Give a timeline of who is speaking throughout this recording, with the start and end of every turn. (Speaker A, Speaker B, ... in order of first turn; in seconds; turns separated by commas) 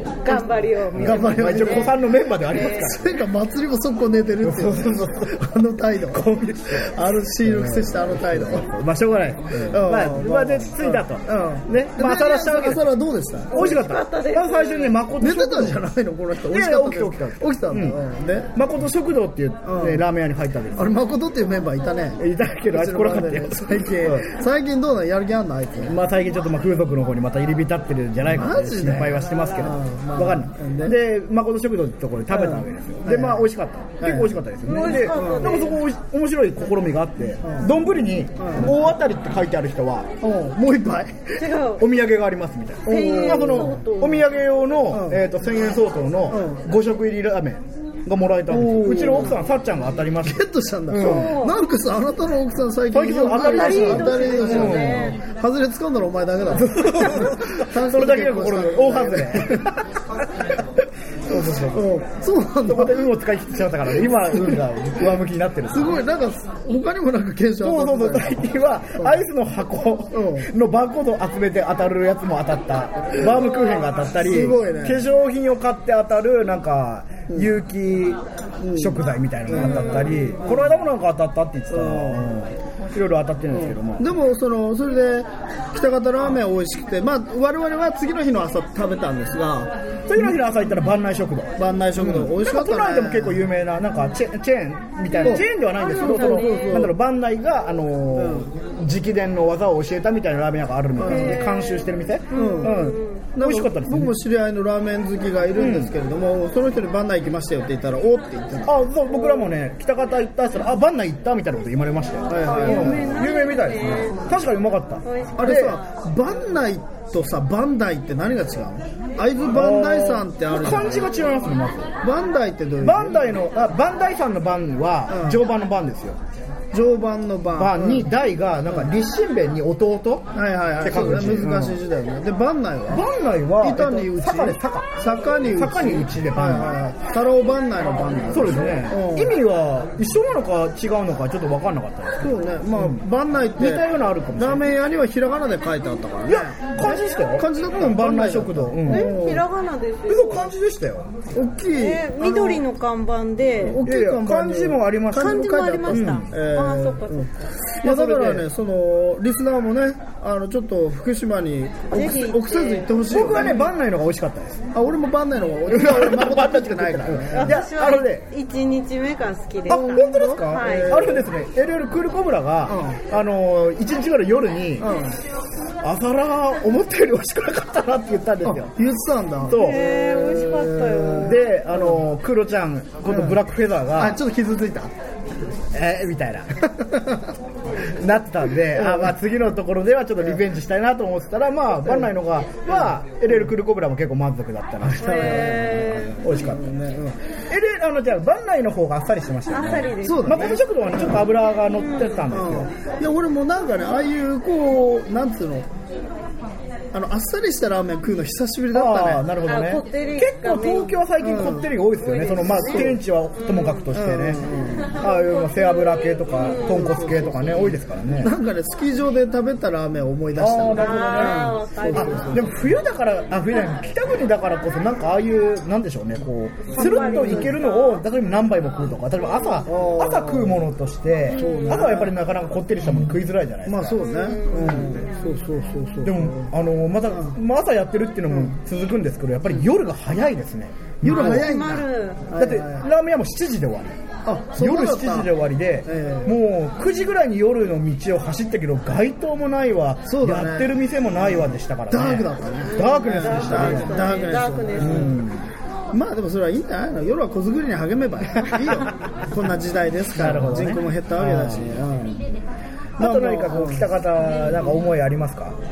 Speaker A: 0.2-2.9, Speaker B: 0.3-1.9, Speaker C: 0.9-3.2, Speaker B: 2.5-6.2, Speaker C: 4.4-5.4, Speaker C: 6.0-12.9, Speaker B: 6.8-8.7, Speaker B: 9.5-13.8, Speaker C: 13.5-15.8, Speaker A: 13.5-15.0, Speaker B: 15.2-18.5, Speaker C: 16.4-18.0, Speaker C: 18.5-20.9, Speaker B: 19.6-20.0, Speaker B: 20.7-26.0, Speaker C: 22.2-24.3, Speaker C: 25.8-40.1, Speaker B: 28.3-30.9, Speaker B: 32.3-33.5, Speaker B: 34.0-35.6, Speaker A: 34.6-35.8, Speaker B: 37.4-37.7, Speaker B: 38.4-38.7, Speaker B: 40.2-41.4, Speaker A: 41.4-41.9, Speaker C: 41.8-51.4, Speaker B: 42.8-43.8, Speaker A: 42.8-44.4, Speaker B: 44.9-45.2, Speaker B: 46.3-46.6, Speaker B: 48.5-49.4, Speaker B: 50.2-59.8, Speaker A: 51.0-51.6, Speaker C: 52.9-55.1, Speaker A: 53.3-55.2, Speaker C: 56.5-59.8, Speaker C: 61.3-61.9, Speaker B: 61.3-63.0, Speaker C: 62.6-66.0, Speaker B: 64.3-64.6, Speaker B: 65.7-68.4, Speaker C: 67.6-78.2, Speaker B: 69.0-69.2, Speaker B: 70.1-70.5, Speaker A: 73.3-74.1, Speaker B: 74.2-75.0, Speaker B: 78.6-80.7, Speaker C: 78.7-84.1, Speaker A: 79.6-80.3, Speaker B: 81.7-82.3, Speaker B: 83.5-90.3, Speaker C: 90.1-104.1, Speaker B: 91.6-93.5, Speaker A: 95.1-96.8, Speaker B: 95.2-96.9, Speaker B: 98.1-98.5, Speaker B: 101.0-101.4, Speaker A: 101.0-103.2, Speaker B: 102.3-102.8, Speaker B: 103.3-108.8, Speaker C: 105.5-105.9, Speaker C: 108.6-115.8, Speaker A: 109.2-109.5, Speaker B: 112.3-113.1, Speaker A: 112.4-114.3, Speaker A: 115.0-115.8, Speaker B: 115.3-121.2, Speaker C: 119.5-121.9, Speaker B: 122.0-123.4, Speaker C: 122.8-126.2, Speaker B: 125.1-125.4, Speaker B: 126.7-128.1, Speaker C: 127.5-131.8, Speaker B: 130.3-133.1, Speaker C: 132.9-136.8, Speaker B: 133.6-139.3, Speaker C: 138.3-143.0, Speaker B: 142.2-143.8, Speaker C: 143.6-144.7, Speaker B: 144.4-149.4, Speaker C: 146.3-149.1, Speaker A: 148.8-150.5, Speaker C: 150.1-151.2, Speaker B: 151.3-152.6, Speaker A: 151.7-153.8, Speaker B: 153.6-157.3, Speaker C: 153.8-156.3, Speaker A: 155.1-157.3, Speaker B: 157.8-163.7, Speaker C: 157.8-158.5, Speaker A: 161.9-162.9, Speaker C: 163.0-164.6, Speaker B: 164.7-167.6, Speaker C: 165.7-168.2, Speaker A: 167.3-171.1, Speaker C: 169.7-174.9, Speaker B: 169.7-171.3, Speaker B: 172.7-173.0, Speaker B: 174.8-175.2, Speaker C: 175.8-178.7, Speaker B: 178.4-182.0, Speaker C: 179.4-179.9, Speaker A: 179.5-181.5, Speaker C: 181.2-184.2, Speaker B: 183.1-183.4, Speaker B: 183.9-184.9, Speaker C: 185.7-186.5, Speaker B: 186.8-187.2, Speaker C: 187.8-196.8, Speaker B: 188.7-189.1, Speaker B: 191.8-192.1, Speaker B: 194.8-197.2, Speaker A: 195.0-196.2, Speaker C: 197.5-202.7, Speaker A: 199.5-200.6, Speaker B: 200.0-201.2, Speaker A: 201.7-202.2, Speaker B: 202.3-205.7, Speaker B: 206.9-209.3, Speaker C: 208.7-214.5, Speaker A: 209.4-211.0, Speaker B: 211.2-211.7, Speaker A: 212.0-213.8, Speaker B: 212.5-213.0, Speaker B: 213.9-215.0, Speaker C: 215.0-218.3, Speaker A: 215.0-217.0, Speaker B: 216.7-222.5, Speaker C: 220.4-234.0, Speaker A: 220.7-222.4, Speaker A: 226.7-228.0, Speaker B: 226.8-227.5, Speaker B: 229.7-230.6, Speaker A: 231.3-232.0, Speaker B: 231.3-232.1, Speaker B: 233.7-236.5, Speaker A: 234.0-235.3, Speaker C: 234.5-234.9, Speaker C: 236.0-241.5, Speaker B: 237.1-237.3, Speaker B: 238.3-238.6, Speaker B: 241.0-242.8, Speaker A: 241.1-242.3, Speaker C: 242.4-244.0, Speaker B: 244.2-245.3, Speaker C: 244.6-254.1, Speaker B: 245.8-246.3, Speaker B: 250.1-255.2, Speaker A: 252.7-255.2, Speaker C: 254.8-255.5, Speaker B: 255.9-262.2, Speaker C: 260.1-261.7, Speaker B: 263.0-263.9, Speaker C: 263.0-265.6